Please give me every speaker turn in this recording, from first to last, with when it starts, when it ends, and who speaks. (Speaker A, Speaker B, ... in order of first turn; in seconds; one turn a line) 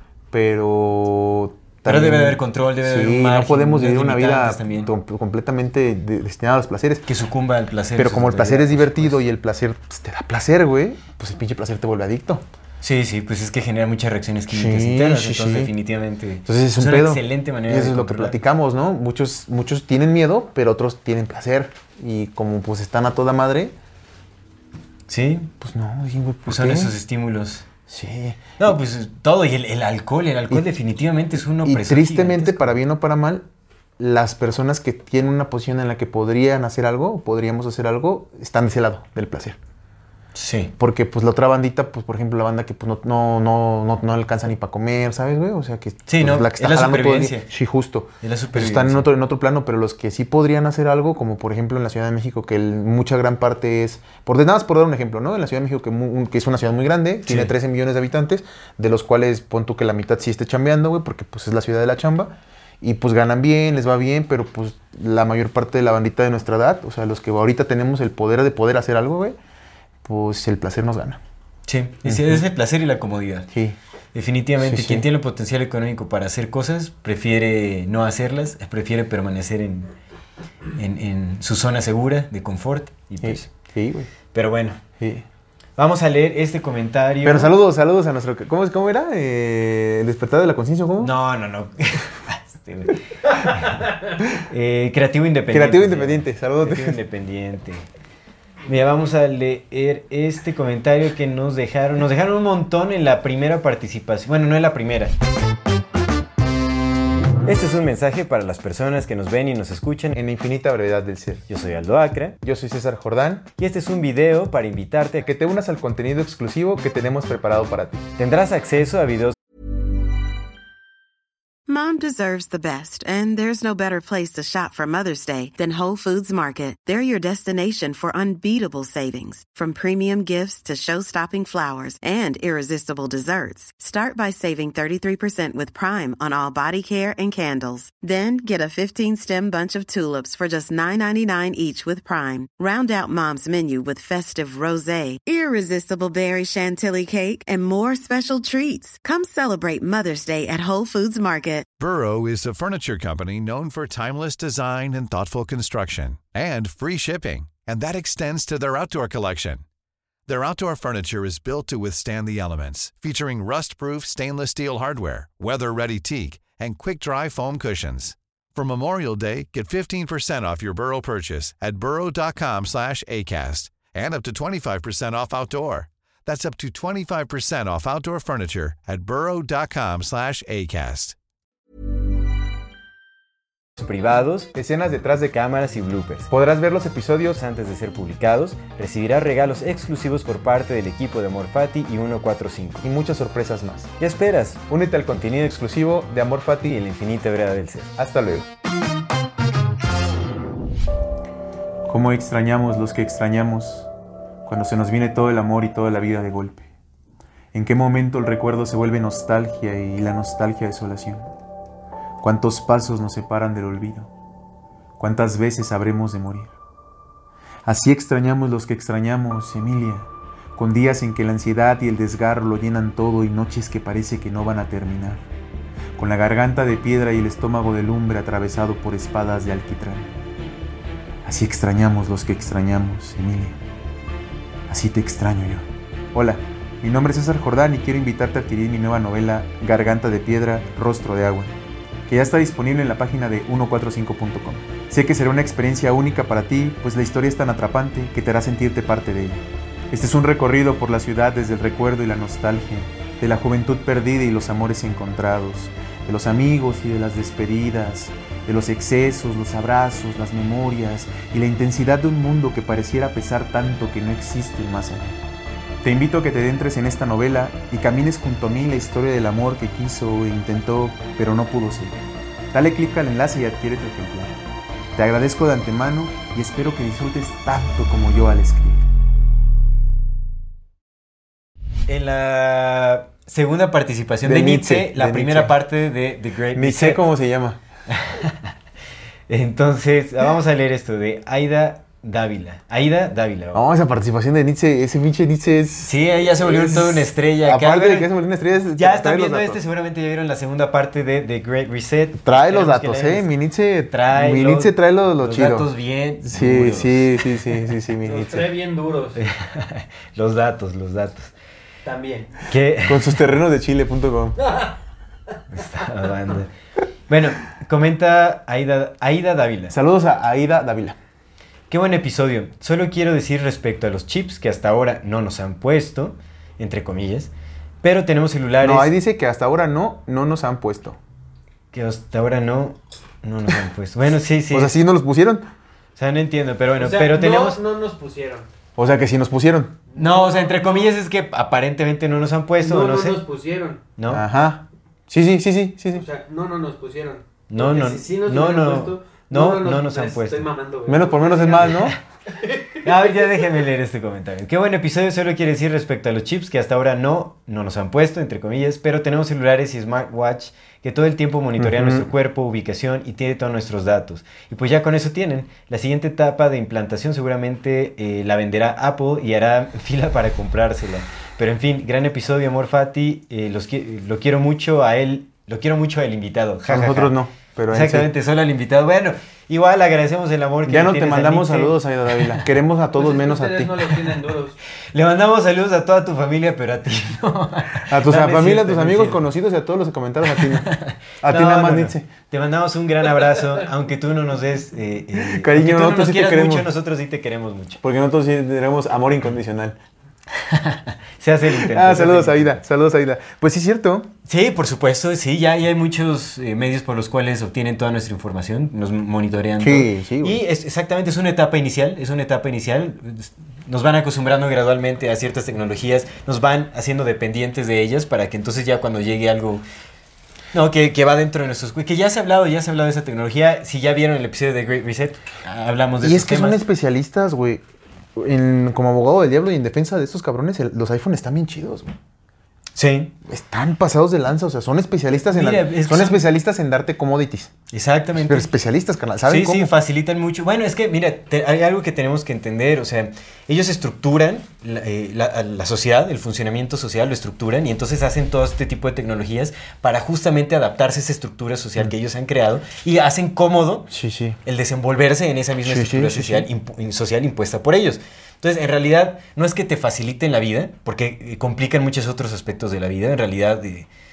Speaker A: 0.3-7.0
Speaker B: 1.9-4.9
Speaker B: 7.1-9.2
Speaker A: 7.9-12.4
Speaker B: 12.8-18.4
Speaker A: 14.5-15.7
Speaker A: 16.4-23.8
Speaker B: 25.1-25.5
Speaker A: 25.6-26.9
Speaker B: 26.4-27.6
Speaker A: 27.9-28.5
Speaker B: 28.6-32.8
Speaker A: 31.4-33.5
Speaker A: 34.0-39.6
Speaker B: 40.4-40.7
Speaker A: 40.8-69.4
Speaker B: 46.0-47.5
Speaker B: 48.2-49.1
Speaker B: 57.3-57.5
Speaker A: 70.0-71.2
Speaker B: 71.7-73.5
Speaker A: 72.0-72.4
Speaker A: 73.5-73.8
Speaker B: 74.1-79.9
Speaker A: 74.6-75.1
Speaker B: 80.7-83.5
Speaker A: 83.2-84.1
Speaker B: 84.3-84.8
Speaker A: 85.0-85.2
Speaker B: 85.8-87.5
Speaker A: 87.2-91.1
Speaker B: 91.0-97.9
Speaker A: 95.5-97.0
Speaker B: 98.7-105.1
Speaker B: 107.4-110.2
Speaker A: 110.1-111.4
Speaker B: 111.5-112.4
Speaker A: 112.4-113.5
Speaker B: 113.6-115.2
Speaker A: 115.2-118.0
Speaker B: 118.2-119.4
Speaker C: 121.7-151.7
Speaker D: 151.8-159.6
Speaker D: 160.3-181.2
Speaker B: 183.8-184.5
Speaker A: 184.5-185.3
Speaker B: 185.3-186.3
Speaker A: 186.3-187.4
Speaker B: 187.4-192.8
Speaker A: 192.8-193.9
Speaker B: 194.0-194.6
Speaker A: 194.7-196.8
Speaker B: 196.7-197.9
Speaker A: 197.9-198.5
Speaker A: 201.9-203.9
Speaker A: 204.4-206.7
Speaker A: 207.5-211.3
Speaker A: 212.2-214.1
Speaker A: 215.0-216.6
Speaker A: 217.6-225.2
Speaker A: 225.9-230.1
Speaker A: 231.2-233.6
Speaker A: 234.7-241.5
Speaker A: 242.1-265.2
Speaker A: 265.8-272.0
Speaker A: 272.5-274.4
Speaker A: 274.9-278.9
Speaker B: 281.9-287.1
Speaker A: 284.2-285.6
Speaker A: 286.5-287.6
Speaker B: 287.9-288.5
Speaker B: 289.3-293.6
Speaker A: 293.5-299.6
Speaker B: 295.8-298.1
Speaker B: 298.8-303.3
Speaker A: 302.2-305.7
Speaker B: 303.9-307.4
Speaker A: 306.2-308.5
Speaker E: 308.0-309.2
Speaker B: 309.1-311.3
Speaker E: 311.8-312.4
Speaker B: 312.4-313.2
Speaker A: 312.9-314.4
Speaker E: 314.4-314.8
Speaker B: 315.5-316.5
Speaker B: 317.1-319.7
Speaker A: 319.7-321.0
Speaker B: 321.7-328.9
Speaker A: 328.6-331.0
Speaker B: 331.7-334.7
Speaker A: 334.5-335.5
Speaker B: 336.0-337.6
Speaker E: 336.8-338.5
Speaker A: 338.8-339.8
Speaker E: 339.9-340.9
Speaker B: 339.9-343.2
Speaker E: 342.6-343.9
Speaker B: 343.9-344.2
Speaker A: 344.1-346.1
Speaker E: 345.9-353.3
Speaker B: 347.5-350.5
Speaker A: 350.9-351.9
Speaker B: 351.6-351.9
Speaker B: 352.8-377.1
Speaker A: 361.6-362.1
Speaker A: 376.7-378.1
Speaker B: 377.7-382.4
Speaker A: 380.6-383.9
Speaker E: 382.9-384.6
Speaker B: 384.9-389.2
Speaker A: 387.8-392.1
Speaker B: 390.3-397.8
Speaker A: 395.1-396.7
Speaker A: 397.8-399.8
Speaker B: 400.4-402.6
Speaker A: 401.5-404.1
Speaker B: 404.2-419.6
Speaker A: 409.6-410.4
Speaker B: 420.5-426.6
Speaker A: 426.0-427.6
Speaker A: 428.1-431.9
Speaker B: 432.8-433.1
Speaker A: 433.2-437.5
Speaker B: 435.3-436.2
Speaker B: 437.7-438.5
Speaker A: 438.1-439.7
Speaker B: 439.2-453.9
Speaker A: 453.9-454.4
Speaker B: 454.4-463.9
Speaker A: 455.6-456.5